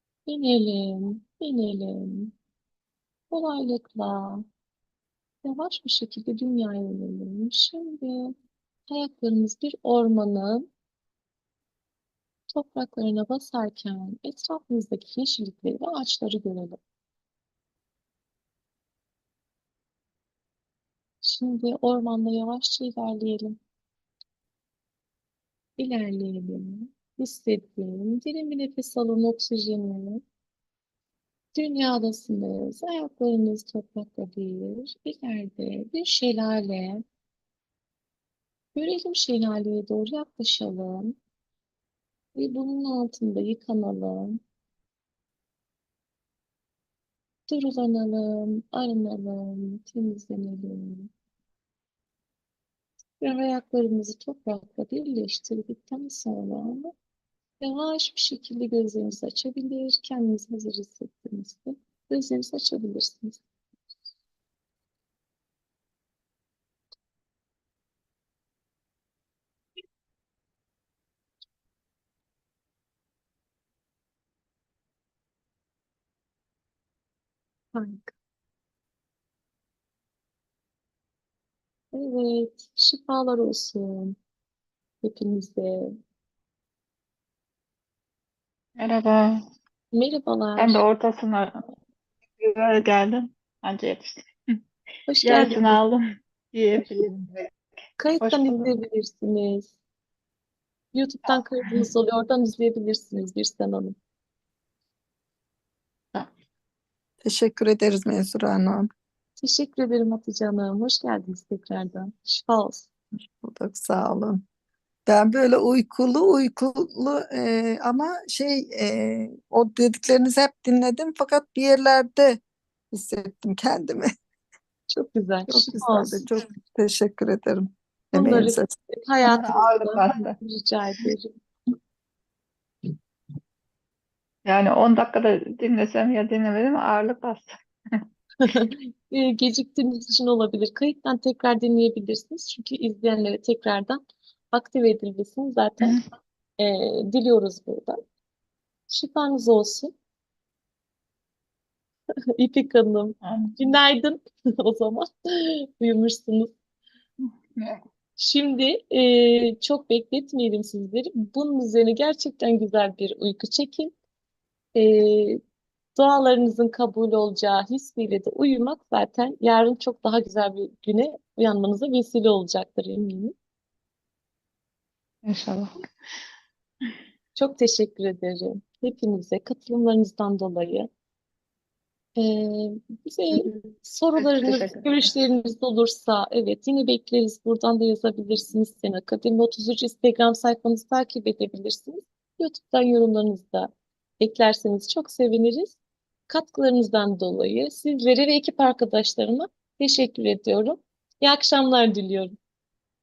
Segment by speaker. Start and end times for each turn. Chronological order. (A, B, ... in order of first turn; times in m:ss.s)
0:00.3-0:02.3 A
0:03.3-0:04.4 A
0:05.4-0:08.3 A
0:08.9-0:10.7 A
0:12.5-0:16.8 A
0:21.2-0:23.6 A
0:25.8-0:30.2 A
0:31.6-0:37.0 A
0:38.8-0:41.2 A
0:42.4-0:44.4 A
0:47.5-0:51.1 A
0:53.2-0:56.9 A
0:57.6-1:03.4 A
1:17.7-1:18.1 A
1:21.9-1:24.2 A
1:25.0-1:26.0 A
1:28.8-1:29.4 B
1:29.9-1:30.8 A
1:30.6-1:31.6 B
1:32.4-1:34.3 B
1:35.1-1:35.8 A
1:35.2-1:37.5 B
1:38.0-1:39.7 A
1:38.2-1:38.7 B
1:40.9-1:44.0 A
1:41.3-1:41.9 B
1:47.2-1:48.9 C
1:49.4-1:52.9 A
1:53.4-1:54.4 C
1:55.1-2:04.1 C
2:04.9-2:06.2 A
2:05.5-2:08.7 C
2:08.1-2:11.3 A
2:09.2-2:10.4 B
2:14.5-2:18.0 B
2:18.4-2:24.0 A
2:24.5-2:26.0 A
2:26.6-2:28.0 A
2:28.9-2:29.9 A
2:32.4-2:36.5 A
2:33.2-2:33.6 B
2:37.6-2:37.8 B
2:38.2-2:43.9 A
2:44.8-2:45.4 A
2:46.0-2:53.3 A
2:55.2-2:55.8 B
2:57.4-3:00.9 A
3:02.2-3:15.8 A
3:03.4-3:05.1 B
3:16.3-3:22.4 A